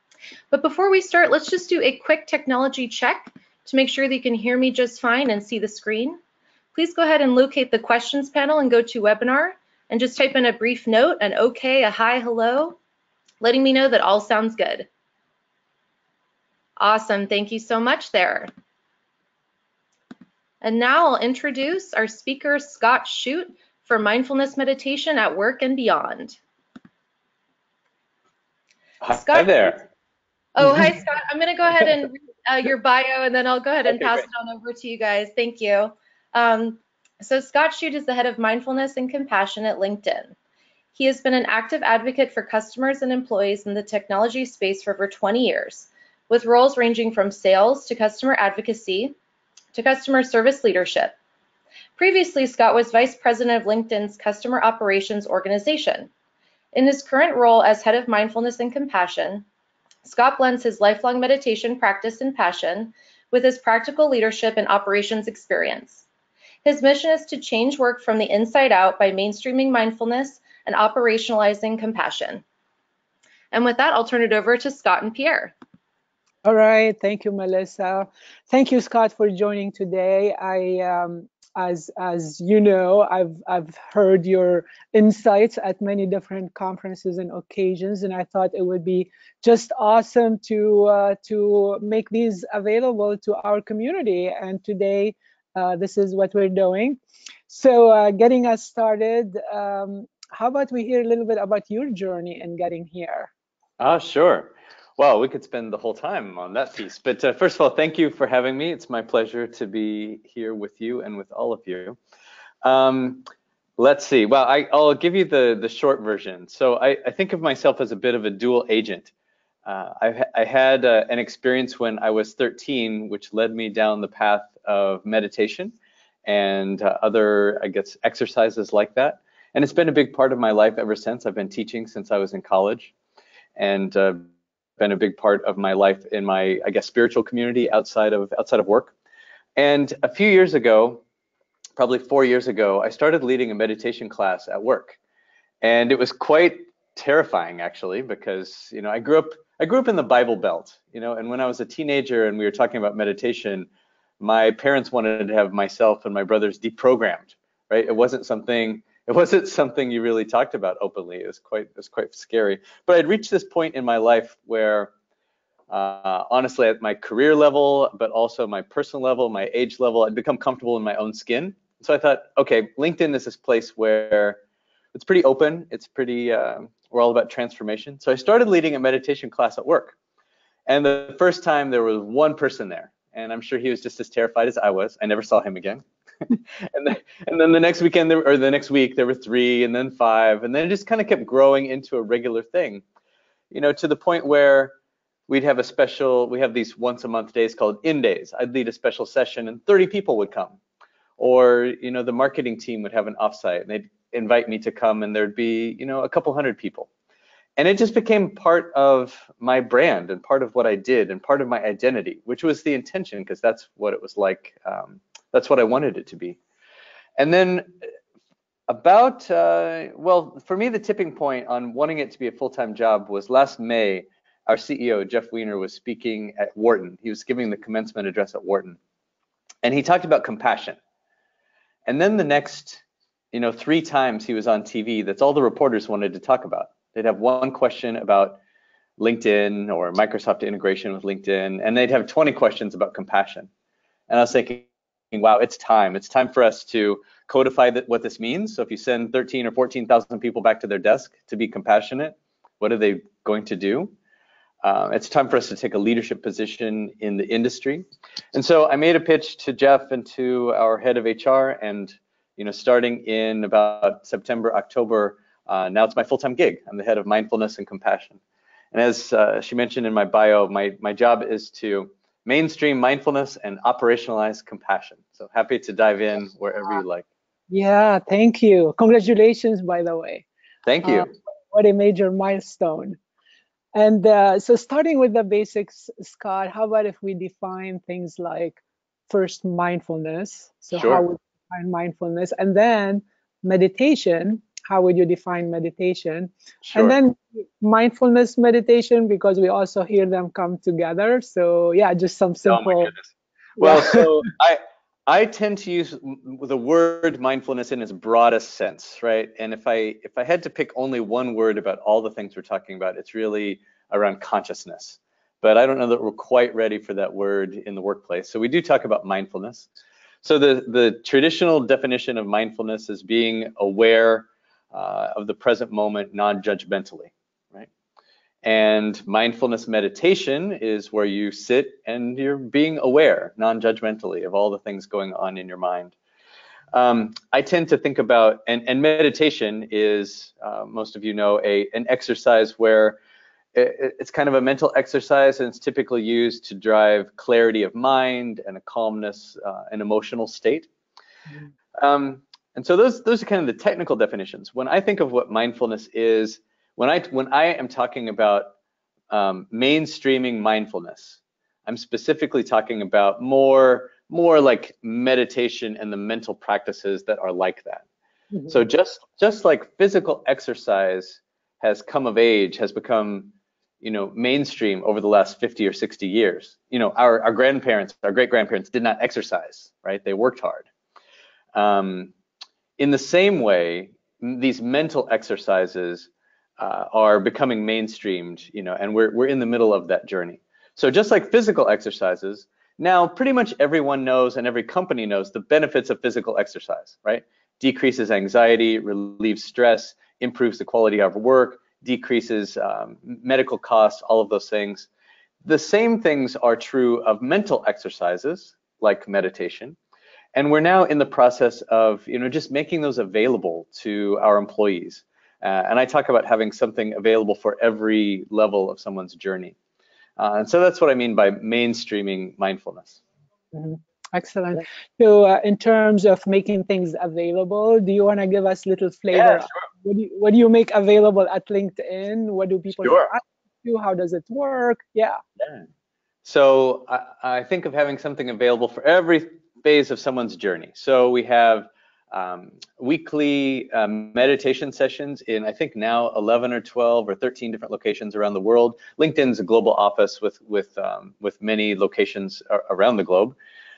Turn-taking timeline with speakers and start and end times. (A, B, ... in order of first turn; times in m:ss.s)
0:00.5-0:06.2 A
0:06.7-0:12.8 A
0:13.4-0:14.9 A
0:16.8-0:18.5 A
0:20.6-0:26.4 A
0:29.0-0:29.8 B
0:29.0-0:29.8 A
0:30.6-0:40.3 A
0:33.9-0:34.3 B
0:41.0-0:49.2 A
0:49.7-0:51.2 A
0:52.0-0:56.1 A
0:56.7-0:59.4 A
1:00.0-1:06.0 A
1:06.6-1:12.4 A
1:13.5-1:15.5 A
1:16.4-1:43.3 C
1:43.8-1:52.0 B
1:52.6-1:53.2 B
1:53.8-1:59.1 B
1:59.6-2:12.9 B
2:13.6-2:18.9 B
2:19.6-2:21.0 B
2:21.8-2:25.0 B
2:25.6-2:33.7 B
2:34.2-2:44.9 B
2:45.7-2:54.4 B
2:54.9-3:00.0 B
3:00.7-3:12.8 B
3:13.5-3:14.8 B
3:15.3-3:20.6 B
3:21.2-3:26.9 B
3:27.6-3:36.4 B
3:37.2-3:37.7 B
3:38.7-3:48.8 B
3:49.6-3:50.8 B
3:51.8-3:58.4 B
3:59.0-4:03.5 B
4:04.1-4:13.9 B
4:14.6-4:28.2 B
4:28.7-4:37.1 B
4:37.5-4:40.2 C
4:40.6-4:41.1 B
4:40.8-4:43.0 C
4:43.8-5:02.9 C
4:50.7-4:51.0 B
4:56.6-4:57.0 B
5:02.4-5:19.7 B
5:03.6-5:04.1 C
5:20.2-5:27.7 B
5:28.4-5:35.9 B
5:36.7-5:43.0 B
5:43.5-5:50.7 B
5:51.8-5:58.5 B
5:59.1-6:07.8 B
6:08.3-6:08.6 C
6:08.5-6:20.7 B
6:21.5-6:22.1 B
6:22.8-6:44.9 B
6:45.4-6:49.8 B
6:50.4-6:59.6 B
7:00.2-7:03.0 B
7:03.5-7:15.2 C
7:09.1-7:09.6 B
7:12.8-7:13.1 B
7:16.2-7:33.4 B